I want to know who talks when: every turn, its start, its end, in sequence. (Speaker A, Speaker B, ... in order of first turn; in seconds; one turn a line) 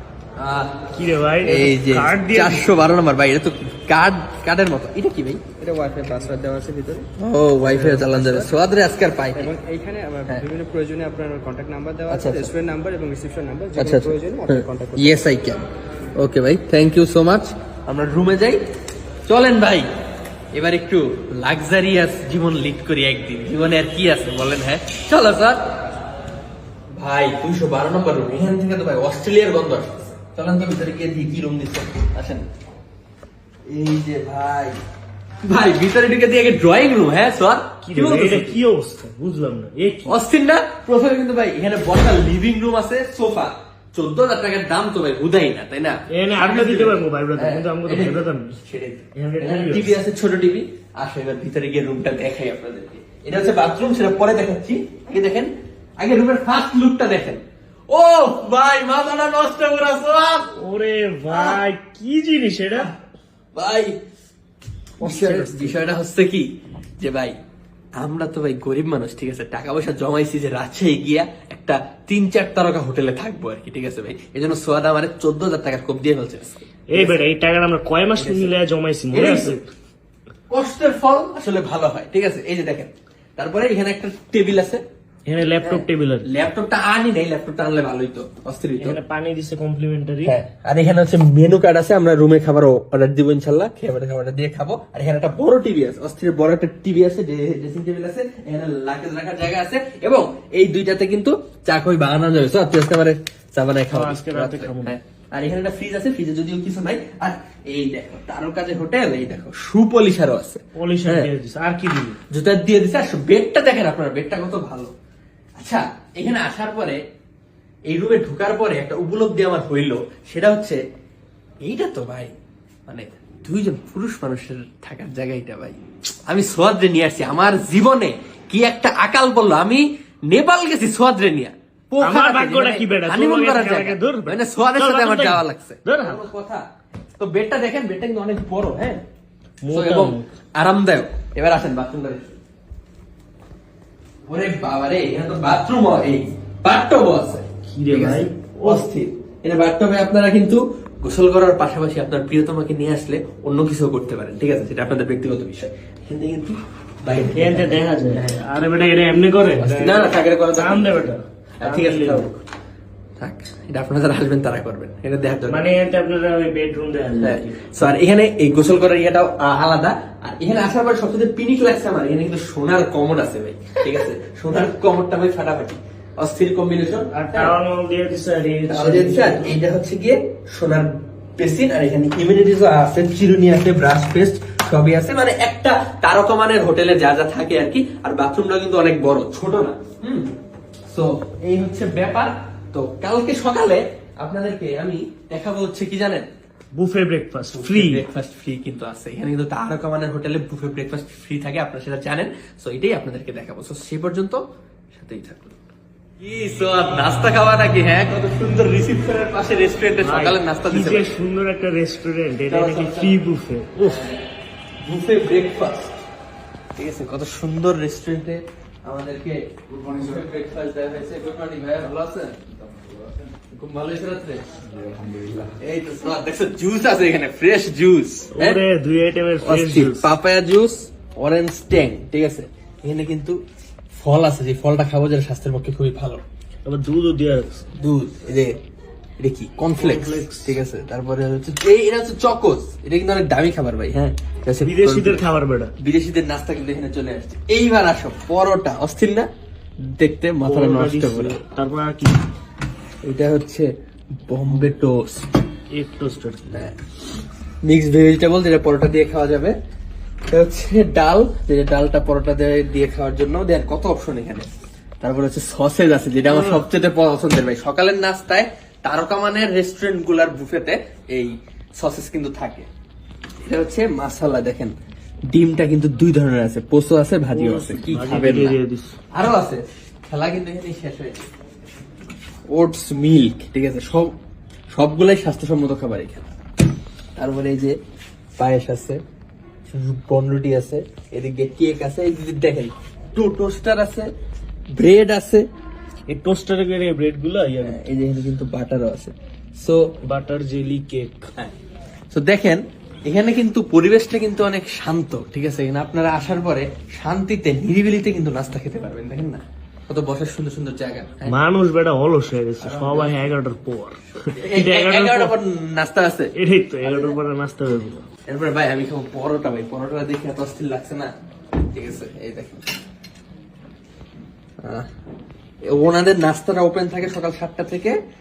Speaker A: 0.4-0.8
Speaker B: 0.9-2.7
Speaker A: 1.4-5.4
Speaker C: 5.6-7.1
Speaker A: 7.2-9.5
Speaker C: 7.6-8.5
Speaker C: 9.4-15.3
Speaker A: 12.1-12.5
Speaker A: 13.8-15.7
Speaker A: 16.2-18.6
Speaker A: 19.3-19.9
Speaker A: 20.5-25.6
Speaker A: 26.9-32.5
Speaker A: 33.7-34.8
Speaker A: 35.4-38.6
Speaker B: 37.8-40.2
Speaker A: 40.1-60.5
Speaker B: 46.1-48.6
Speaker B: 49.1-49.9
Speaker B: 60.6-62.9
Speaker A: 61.3-61.6
Speaker A: 63.5-64.0
Speaker B: 65.0-65.8
Speaker A: 65.0-67.4
Speaker A: 68.0-77.3
Speaker B: 76.9-79.7
Speaker A: 78.2-78.5
Speaker A: 79.1-79.6
Speaker A: 80.5-84.8
Speaker B: 85.3-86.3
Speaker A: 85.6-89.0
Speaker B: 88.8-90.4
Speaker A: 90.2-111.3
Speaker B: 103.9-105.0
Speaker B: 110.8-112.2
Speaker A: 112.3-114.9
Speaker A: 115.6-117.0
Speaker A: 117.9-120.8
Speaker A: 121.6-122.3
Speaker A: 122.9-136.6
Speaker B: 132.0-136.2
Speaker A: 137.2-139.0
Speaker B: 139.6-140.3
Speaker A: 139.7-142.4
Speaker A: 144.3-158.4
Speaker B: 147.7-148.9
Speaker B: 157.1-162.3
Speaker A: 159.6-162.4
Speaker A: 163.2-165.6
Speaker B: 165.5-167.8
Speaker A: 167.2-177.6
Speaker B: 177.1-179.6
Speaker A: 178.7-190.3
Speaker A: 190.9-196.3
Speaker B: 196.7-198.0
Speaker A: 197.5-205.6
Speaker A: 206.2-211.1
Speaker B: 210.0-214.1
Speaker A: 212.5-213.1
Speaker A: 213.8-214.2
Speaker A: 214.8-216.0
Speaker A: 216.8-222.4
Speaker A: 223.5-224.4
Speaker A: 225.5-228.6
Speaker B: 228.3-230.1
Speaker A: 229.4-233.4
Speaker A: 233.9-236.2
Speaker B: 236.7-237.6
Speaker A: 237.8-238.6
Speaker A: 239.2-245.3
Speaker B: 239.8-240.6
Speaker B: 244.6-245.7
Speaker A: 245.8-249.3
Speaker A: 249.8-251.4
Speaker B: 250.4-252.2
Speaker A: 253.0-253.7
Speaker A: 254.3-255.3
Speaker B: 255.7-256.5
Speaker A: 256.5-256.8
Speaker A: 257.6-259.6
Speaker A: 260.3-272.7
Speaker B: 266.3-266.6
Speaker A: 273.4-274.7
Speaker A: 275.3-278.6
Speaker B: 277.3-278.9
Speaker A: 279.1-281.3
Speaker A: 282.5-284.1
Speaker A: 284.7-286.3
Speaker A: 287.2-287.8
Speaker A: 288.4-289.0
Speaker A: 289.7-294.1
Speaker A: 294.7-295.5
Speaker B: 296.1-297.8
Speaker A: 297.6-299.9
Speaker B: 300.0-301.3
Speaker A: 302.1-311.4
Speaker B: 311.2-315.3
Speaker A: 312.6-313.3
Speaker A: 314.4-317.2
Speaker B: 316.4-318.1
Speaker A: 318.2-321.1
Speaker A: 321.7-322.8
Speaker A: 324.6-324.9
Speaker A: 325.6-328.0